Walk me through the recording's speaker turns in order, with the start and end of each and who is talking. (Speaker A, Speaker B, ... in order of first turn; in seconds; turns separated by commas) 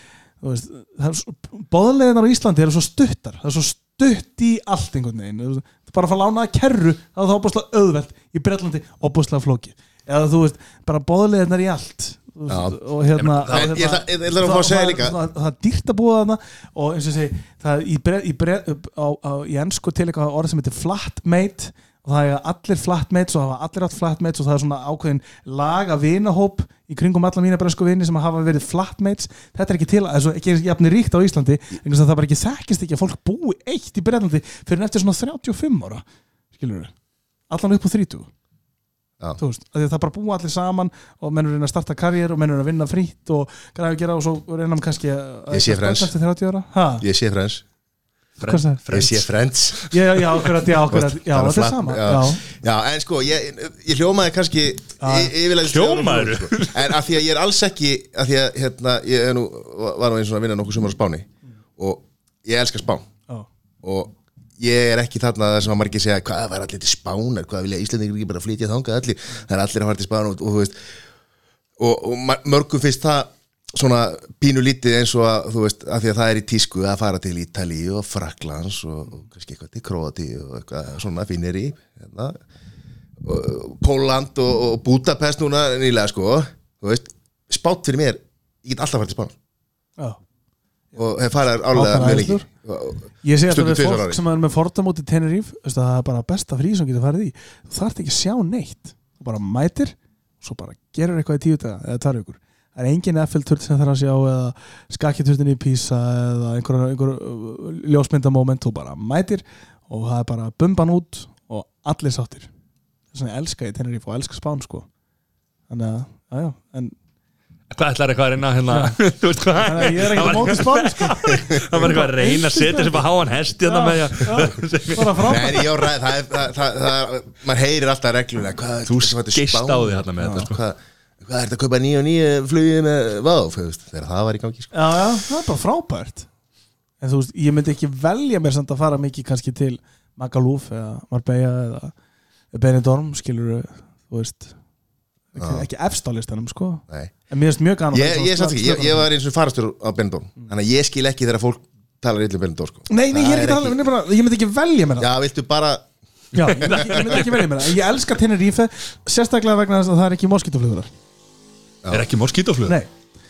Speaker A: 0.4-36.9, Speaker B: 12.5-12.8, Speaker C: 13.2-13.8, Speaker B: 13.5-15.2, Speaker A: 37.5-38.3, Speaker A: 39.4-47.1, Speaker B: 45.5-46.1, Speaker B: 47.0-47.6, Speaker C: 48.4-49.3, Speaker A: 48.4-48.8, Speaker B: 48.9-49.8, Speaker A: 49.9-52.4, Speaker B: 50.9-61.3, Speaker A: 55.0-55.3, Speaker C: 55.6-56.9, Speaker B: 61.8-63.0, Speaker B: 63.8-70.8, Speaker B: 71.8-82.4, Speaker B: 83.2-89.3, Speaker B: 91.0-94.2, Speaker A: 91.7-92.5, Speaker A: 93.2-112.5, Speaker A: 113.1-114.9, Speaker A: 115.7-117.0, Speaker C: 117.7-125.7, Speaker A: 118.7-119.0, Speaker A: 119.6-123.1, Speaker B: 121.3-121.8, Speaker A: 123.6-125.7, Speaker B: 125.3-134.7, Speaker C: 128.9-130.6, Speaker A: 130.2-130.5, Speaker A: 134.7-136.3, Speaker A: 137.0-141.9, Speaker A: 142.5-144.5, Speaker A: 145.3-149.1, Speaker B: 145.4-145.7, Speaker B: 147.9-153.8, Speaker A: 152.9-155.1, Speaker B: 155.0-155.9, Speaker A: 156.3-160.9, Speaker B: 156.5-157.1, Speaker C: 156.5-157.5, Speaker C: 161.9-162.8